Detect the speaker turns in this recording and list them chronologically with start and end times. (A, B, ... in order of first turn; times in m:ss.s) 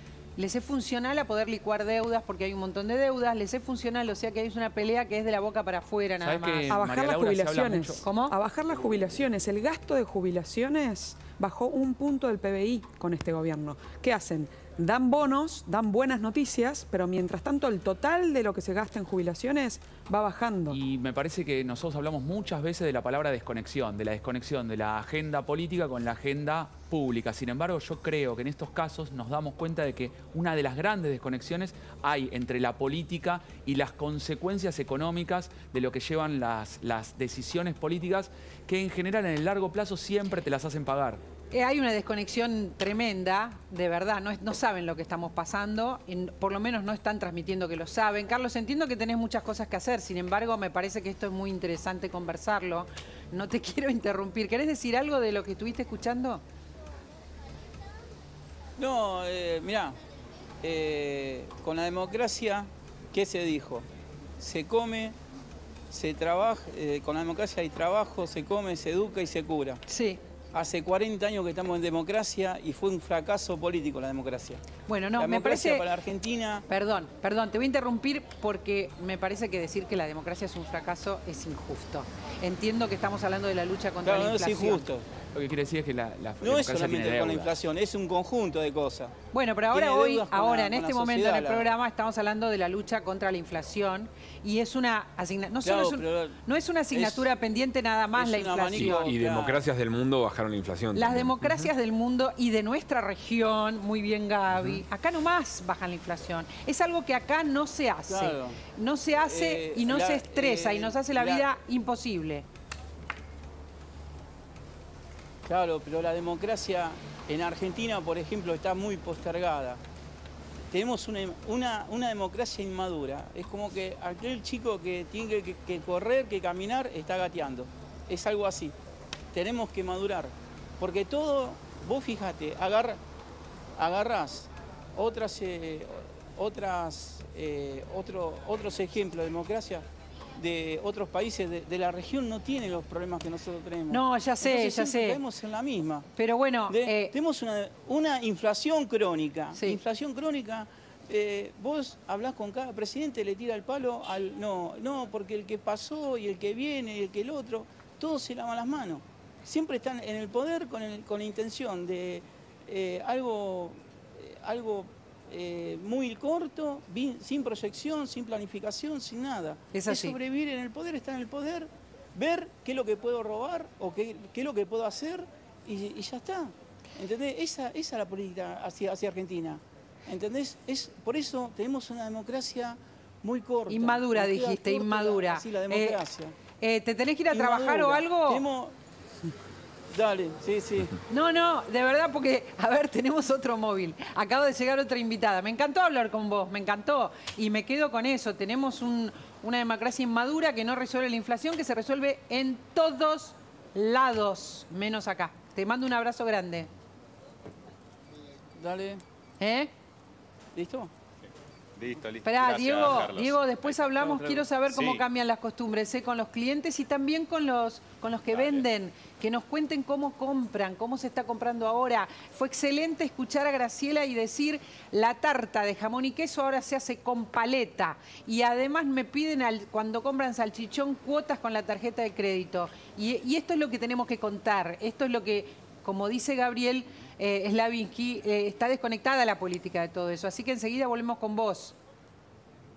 0:00.4-0:06.8 A
0:06.2-0:08.0 B
0:06.7-0:20.8 C
0:08.0-0:08.3 A
0:20.7-0:41.2 B
0:41.5-0:56.4 A
0:58.8-1:00.0 D
1:00.6-1:03.8 D
1:04.4-1:05.2 D
1:05.9-1:09.8 D
1:09.9-1:10.2 A
1:10.5-1:14.6 D
1:14.9-1:15.9 A
1:15.2-1:16.6 D
1:16.7-1:24.9 A
1:24.0-1:25.1 D
1:25.3-1:27.6 B
1:26.4-1:29.1 D
1:29.3-1:39.1 A
1:29.7-1:31.7 D
1:35.6-1:36.4 D
1:36.9-1:37.3 D
1:38.1-1:39.6 D
1:38.7-1:41.5 E
1:40.9-1:52.4 A
1:48.1-1:48.6 D
1:49.2-1:51.4 D
1:55.4-1:59.8 D
2:00.7-2:08.7 D
2:09.3-2:13.0 D
2:13.8-2:19.8 D
2:20.4-2:26.0 D
2:23.9-2:25.2 A
2:26.2-2:27.1 A
2:26.7-3:06.3 D
2:29.5-2:29.8 A
2:49.7-2:50.2 A
3:03.7-3:06.0 A
3:06.6-3:08.4 A
3:07.3-3:08.7 D
3:09.9-3:11.0 D
3:11.1-3:26.7 A
3:28.6-3:29.0 D
3:29.4-3:29.7 A
3:30.5-3:30.9 D
3:31.8-3:33.9 F
3:32.2-4:01.8 A
3:34.0-3:34.4 D
3:34.7-3:35.0 F
3:38.3-3:38.6 F